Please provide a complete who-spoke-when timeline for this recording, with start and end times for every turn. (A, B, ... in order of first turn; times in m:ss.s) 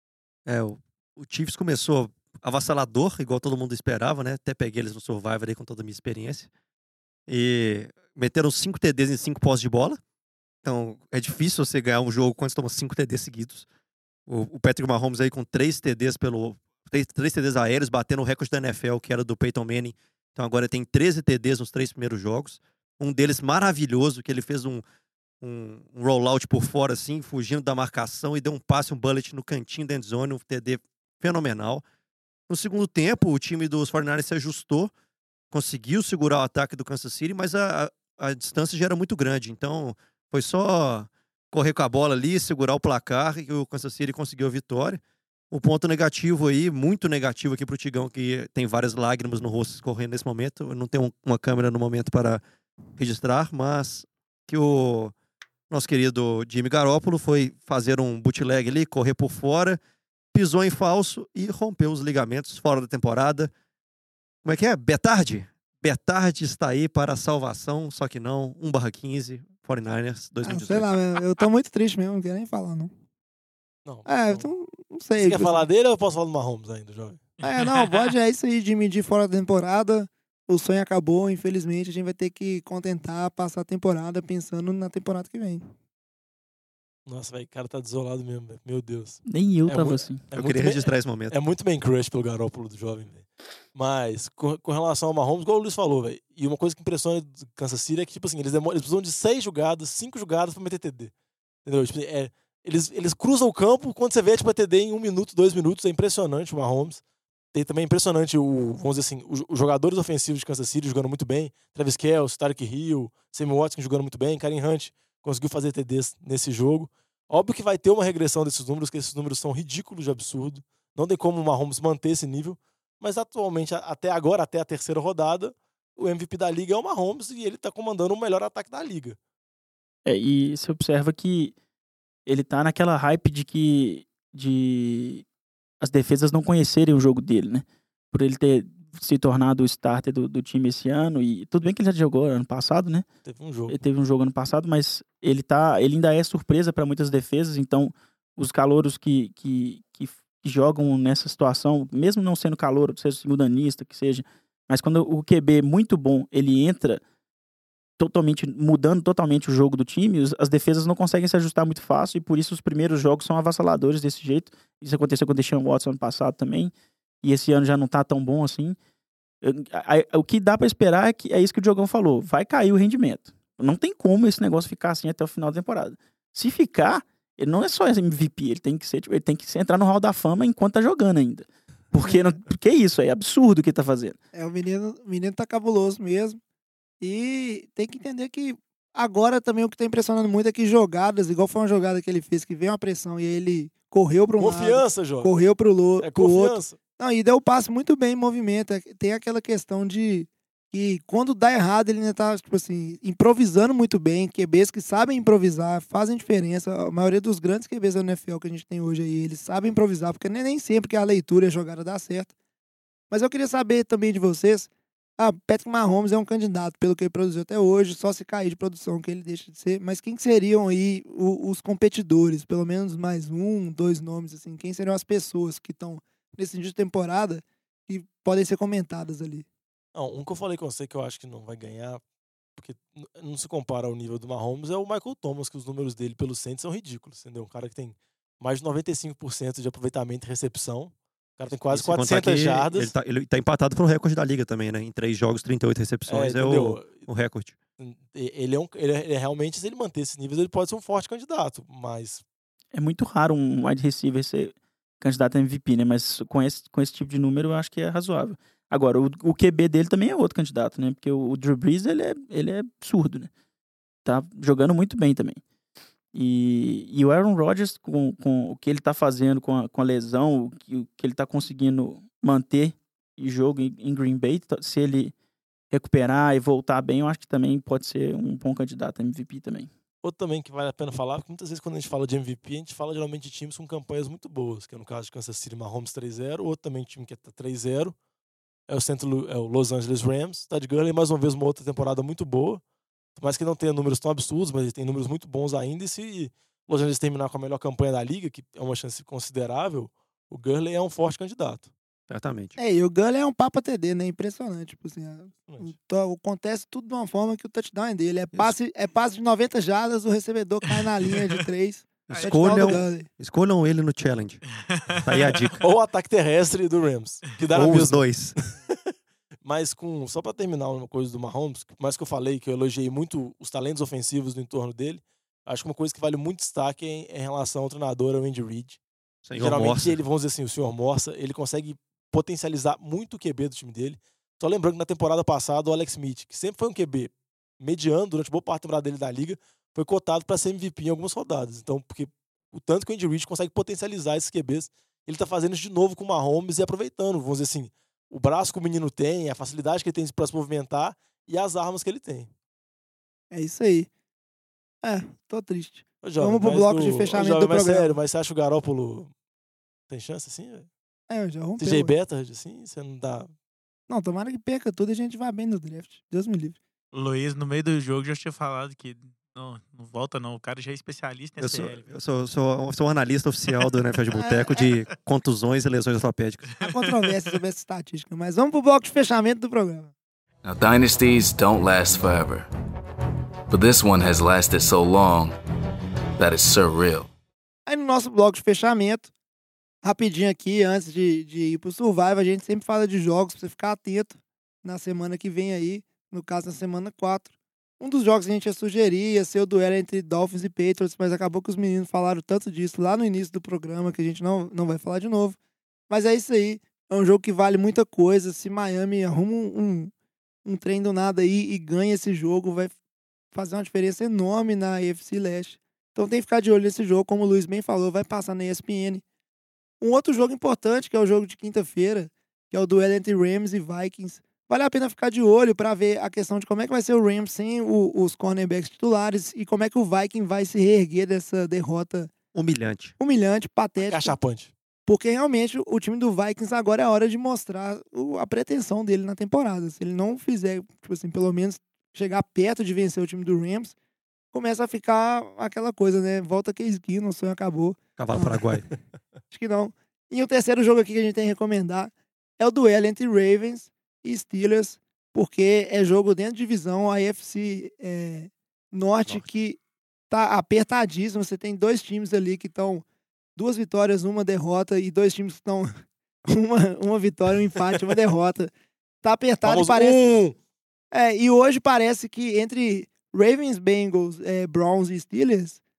0:00.4-0:06.5 A
0:07.3-0:10.0 A
0:10.6-0:13.7 A
0:14.3-0:24.8 A
0:25.4-0:31.8 A
0:32.5-0:34.9 A
0:35.5-0:52.4 A
0:53.0-0:55.1 A
0:55.7-0:59.8 A
1:00.3-1:03.5 A
1:04.4-1:10.9 A
1:10.4-1:12.9 B
1:13.8-1:14.5 C
1:14.0-1:15.7 B
1:15.2-1:17.2 C
1:17.4-1:18.1 D
1:17.4-1:25.6 B
1:27.0-1:41.1 C
1:29.3-1:30.2 E
1:30.3-1:31.4 A
1:41.6-1:47.0 C
1:47.5-2:09.2 C
2:10.0-2:11.5 E
2:12.2-2:15.2 E
2:15.8-2:23.1 E
2:23.2-2:23.8 C
2:23.7-2:37.0 E
2:38.0-2:48.8 E
2:49.4-3:04.2 E
3:02.0-3:02.4 B
3:04.3-3:06.4 B
3:07.0-3:32.3 B
3:14.4-3:15.3 C
3:16.0-3:16.8 C
3:33.1-3:49.4 B
3:49.9-3:52.0 C
3:52.6-4:02.9 C
4:01.7-4:07.6 A
4:06.1-4:07.0 C
4:07.8-4:12.2 C
4:12.7-4:23.3 E
4:24.0-4:25.4 E
4:26.1-4:35.1 E
4:35.7-4:39.7 E
4:40.0-4:47.9 C
4:48.7-4:52.6 C
4:53.2-5:01.7 C
5:02.1-5:02.6 A
5:02.6-5:13.1 B
5:05.5-5:05.7 C
5:12.1-5:12.8 D
5:12.1-5:14.4 A
5:14.7-5:15.6 D
5:15.0-5:15.6 A
5:15.6-5:18.8 C
5:17.5-5:18.4 A
5:19.4-5:28.8 C
5:29.2-5:30.0 A
5:29.4-5:52.3 C
5:53.3-5:53.9 B
5:54.8-5:58.0 B
5:56.0-5:59.1 C
5:59.9-6:00.7 C
6:01.1-6:01.9 B
6:01.6-6:03.3 C
6:03.9-6:06.6 B
6:06.9-6:11.9 D
6:11.4-6:16.5 A
6:14.2-6:14.7 B
6:16.6-6:19.9 B
6:16.6-6:17.2 D
6:20.4-6:22.5 F
6:23.5-6:25.4 F
6:26.2-6:27.1 F
6:27.7-6:29.1 B
6:29.8-6:45.4 B
6:45.9-6:49.9 B
6:50.4-6:52.7 B
6:53.3-6:59.0 B
6:59.8-7:12.1 B
7:12.3-7:12.9 A
7:13.0-7:14.2 B
7:13.8-7:14.5 C
7:14.8-7:23.7 B
7:24.3-7:28.4 B
7:28.0-7:28.7 A
7:29.3-7:39.6 B
7:40.1-7:42.8 B
7:43.4-7:45.7 B
7:46.3-7:48.5 B
7:49.0-7:50.0 B
7:49.4-7:50.4 C
7:50.9-7:55.6 B